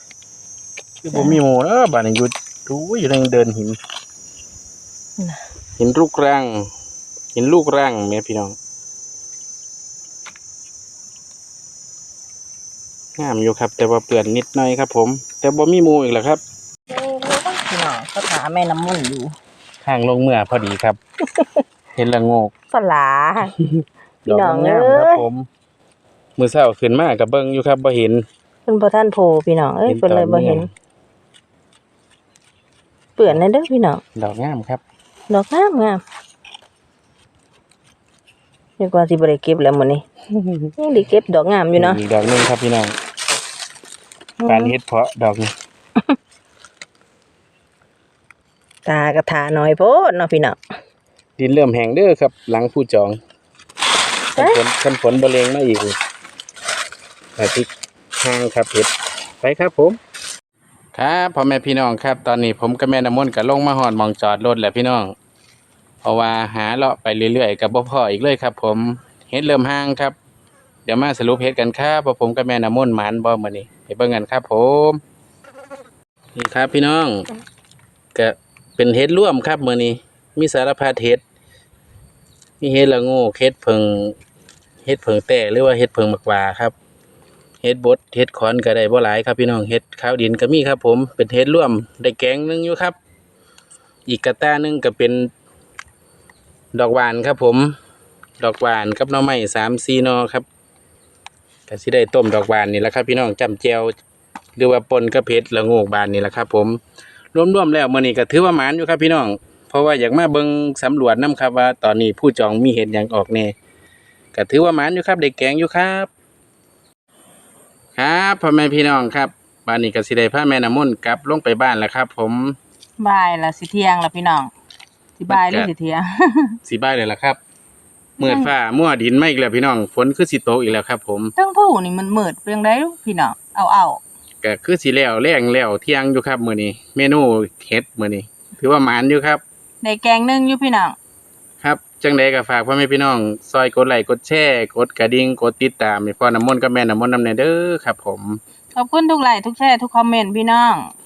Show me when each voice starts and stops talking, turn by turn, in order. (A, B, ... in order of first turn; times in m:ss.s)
0:01.0-0:03.8 A
0:01.1-0:01.4 B
0:05.8-0:06.7 A
0:07.4-0:08.6 A
0:13.2-0:16.4 A
0:16.9-0:19.4 B
0:19.8-0:21.0 A
0:21.4-0:21.6 B
0:22.0-0:22.5 A
0:22.7-0:23.5 B
0:23.6-0:25.5 A
0:24.3-0:25.2 B
0:26.4-0:28.2 A
0:28.7-0:30.7 B
0:29.9-0:30.7 A
0:33.2-0:34.0 B
0:34.2-0:34.8 A
0:35.3-0:36.0 B
0:38.8-0:40.0 B
0:40.4-0:40.7 A
0:40.8-0:42.0 B
0:41.8-0:43.0 A
0:44.4-0:44.7 B
0:44.4-0:45.5 A
0:48.9-0:50.6 B
0:51.4-0:53.2 A
0:54.3-0:56.0 A
0:57.4-0:57.7 A
0:58.2-1:00.0 A
1:00.9-1:05.1 A
1:06.0-1:10.2 A
1:10.9-1:15.0 A
1:16.4-1:17.2 A
1:18.2-1:21.2 A
1:22.6-1:24.2 A
1:24.8-1:26.8 A
1:27.6-1:33.0 A
1:34.1-1:35.3 A
1:36.7-1:37.7 A
1:38.4-1:40.5 A
1:41.7-1:43.9 A
1:44.6-1:46.8 A
1:47.4-1:53.5 A
1:54.3-1:56.1 A
1:58.0-2:02.6 A
2:03.0-2:04.5 B
2:05.2-2:06.6 B
2:05.3-2:05.7 A
2:06.7-2:07.4 A
2:08.2-2:11.3 A
2:08.2-2:08.5 B
2:11.4-2:14.0 B
2:14.4-2:19.4 A
2:19.8-2:21.0 B
2:21.6-2:28.4 A
2:28.8-2:30.9 B